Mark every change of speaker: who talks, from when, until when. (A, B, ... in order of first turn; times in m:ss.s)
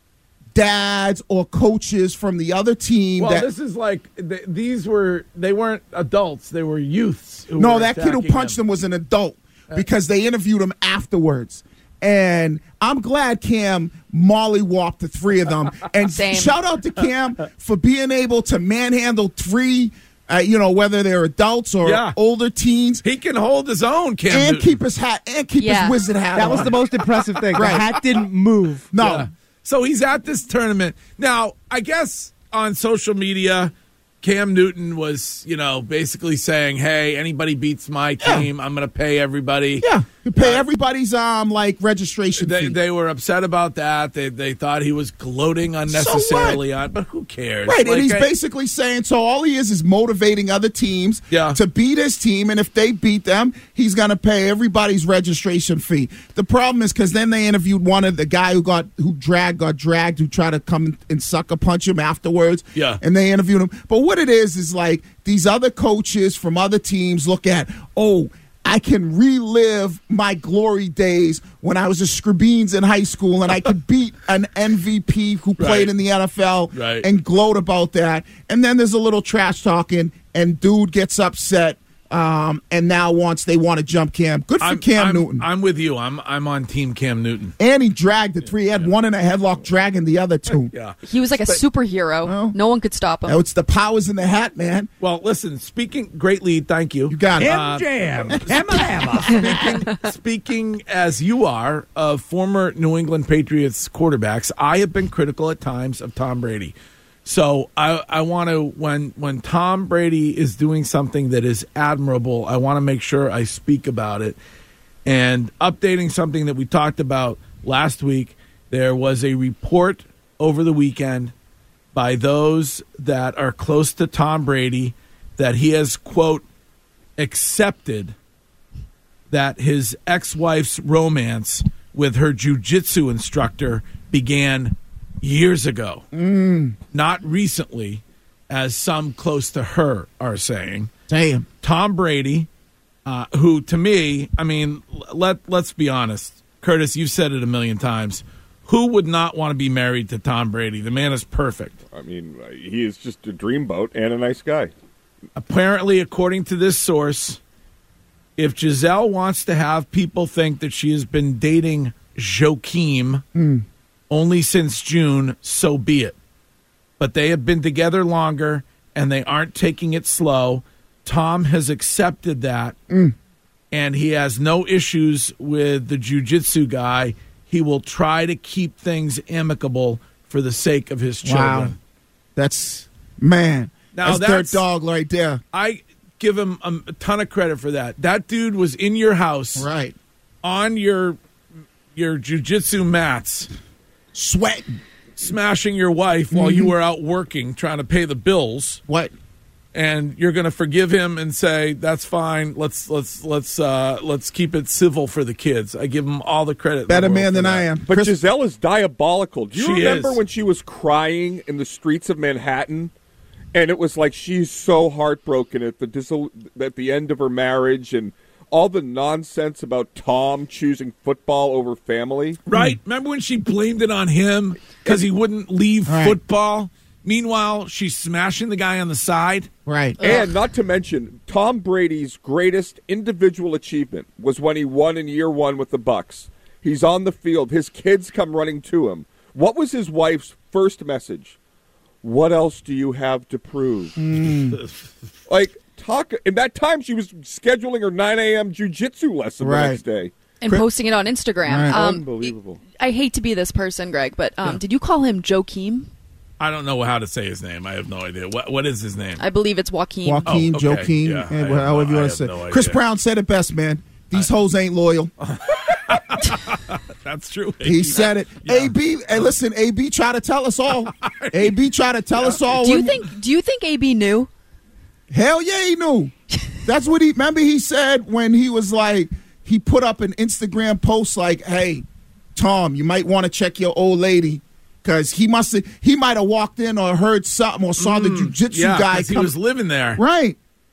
0:00.5-0:03.5 A
0:03.2-0:08.6 B
0:07.5-0:23.0 A
0:16.2-0:16.6 C
0:21.8-0:22.2 B
0:23.0-0:24.8 B
0:24.3-0:26.7 A
0:25.6-0:26.0 C
0:26.3-0:28.9 D
0:26.4-0:28.0 B
0:27.5-0:27.9 A
0:28.9-0:29.3 A
0:29.0-0:40.6 B
0:39.8-0:42.8 A
0:42.4-0:48.3 B
0:45.9-0:46.6 A
0:47.6-1:25.5 A
0:51.3-0:51.6 B
1:15.6-1:15.9 B
1:16.7-1:17.1 B
1:24.6-1:27.5 B
1:27.6-1:30.7 A
1:28.5-1:28.9 B
1:30.6-1:31.0 B
1:31.0-1:33.4 C
1:32.2-1:32.6 A
1:33.2-1:34.9 A
1:35.0-1:46.7 B
1:37.1-1:38.8 A
1:47.2-1:54.4 B
1:55.0-2:01.3 B
2:01.9-2:06.4 B
2:07.2-2:08.1 B
2:09.3-2:16.0 B
2:16.1-2:16.8 A
2:16.9-2:20.9 B
2:21.1-2:21.4 A
2:21.6-2:22.5 B
2:23.0-2:31.8 B
2:31.9-2:34.7 E
2:35.3-2:37.4 B
2:38.4-2:43.2 B
2:43.3-2:43.6 A
2:44.1-2:46.2 B
2:47.0-2:52.8 B
2:52.9-2:53.1 A
2:53.7-3:01.8 B
3:01.2-3:01.7 A
3:02.4-3:05.4 A
3:03.9-3:04.6 B
3:05.5-3:09.7 B
3:09.6-3:09.9 A
3:10.4-3:11.2 B
3:11.9-3:13.5 B
3:14.1-3:14.8 A
3:15.2-3:18.8 B
3:16.3-3:16.7 A
3:18.9-3:19.1 A
3:19.7-3:27.7 B
3:26.9-3:28.2 A
3:27.9-3:32.9 E
3:29.5-3:30.2 B
3:33.5-3:42.4 E
3:42.4-3:49.5 B
3:45.8-3:46.2 A
3:49.6-3:50.0 A
3:50.0-4:01.4 E
3:50.0-3:50.3 C
4:02.0-4:04.0 E
4:04.0-4:04.6 A
4:05.3-4:10.1 E
4:09.4-4:09.8 A
4:10.4-4:15.9 C
4:11.4-4:11.8 A
4:11.6-4:12.6 E
4:16.4-4:19.2 B
4:19.2-4:20.3 C
4:20.0-4:25.1 A
4:20.3-4:22.8 B
4:25.2-4:28.7 B
4:27.6-4:33.1 A
4:30.8-4:31.5 B
4:32.2-4:32.5 B
4:32.6-4:34.3 C
4:35.1-4:36.1 A
4:36.6-4:41.8 A
4:42.3-4:49.3 A
4:47.8-4:50.0 B
4:49.9-4:50.4 A